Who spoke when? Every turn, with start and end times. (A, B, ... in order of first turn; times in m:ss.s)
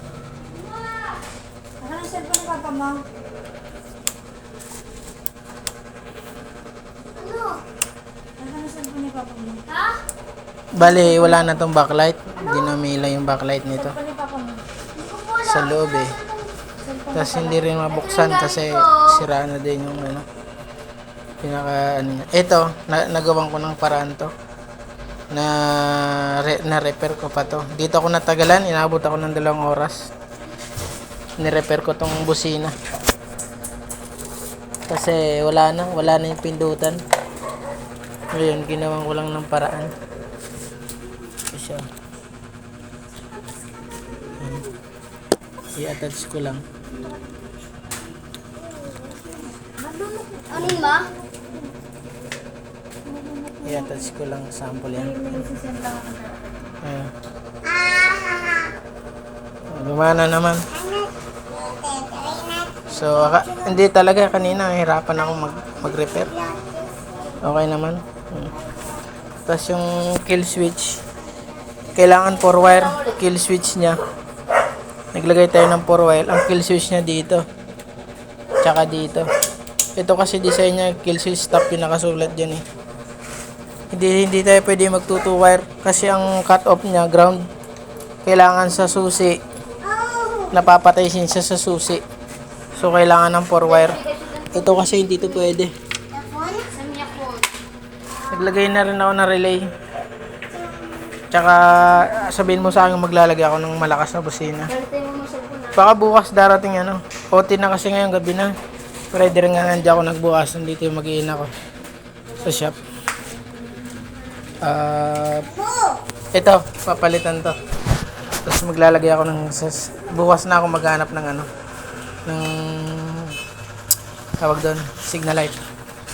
0:00.5-0:01.2 A
0:01.8-0:03.0 B
0:07.2-0:07.6 A
0:08.4-0:09.7 B
0:09.7-0:10.0 A
0:10.8-0:14.0 C
0:11.0-0:11.5 B
0:13.8-0:14.6 B
0:15.0-0:16.4 A
0:15.4-0:16.2 C
0:16.8-0:17.6 B
0:17.1-0:20.2 C
0:17.9-0:19.1 A
0:21.4-0:24.3 C
0:25.3-0:30.1 C
0:31.4-0:32.8 C
0:34.9-0:37.0 C
0:38.3-0:39.9 C
0:41.5-0:41.9 C
0:44.4-0:44.6 C
0:45.8-0:46.6 C
0:49.6-0:50.6 B
0:50.5-0:51.1 A
0:50.5-0:50.9 C
0:53.1-0:54.0 B
0:53.6-0:55.5 C
0:55.0-0:56.7 B
0:56.8-0:57.1 C
0:58.0-0:58.5 A
0:59.7-1:00.8 C
1:02.8-1:06.4 C
1:07.4-1:08.6 C
1:09.5-1:11.0 C
1:11.9-1:14.0 C
1:12.7-1:13.1 A
1:15.1-1:17.4 C
1:18.6-1:19.3 C
1:20.0-1:22.6 C
1:23.9-1:27.4 C
1:28.2-1:29.4 C
1:30.5-1:32.0 C
1:32.7-1:35.7 C
1:33.7-1:35.2 A
1:36.2-1:37.5 A
1:38.3-1:39.7 C
1:41.3-1:44.7 C
1:44.7-1:45.9 A
1:45.7-1:48.5 C
1:49.1-1:51.5 C
1:52.4-1:52.8 C
1:54.6-1:55.5 C
1:56.4-1:57.6 C
1:58.4-2:01.5 C
2:02.3-2:03.4 C
2:04.4-2:05.6 C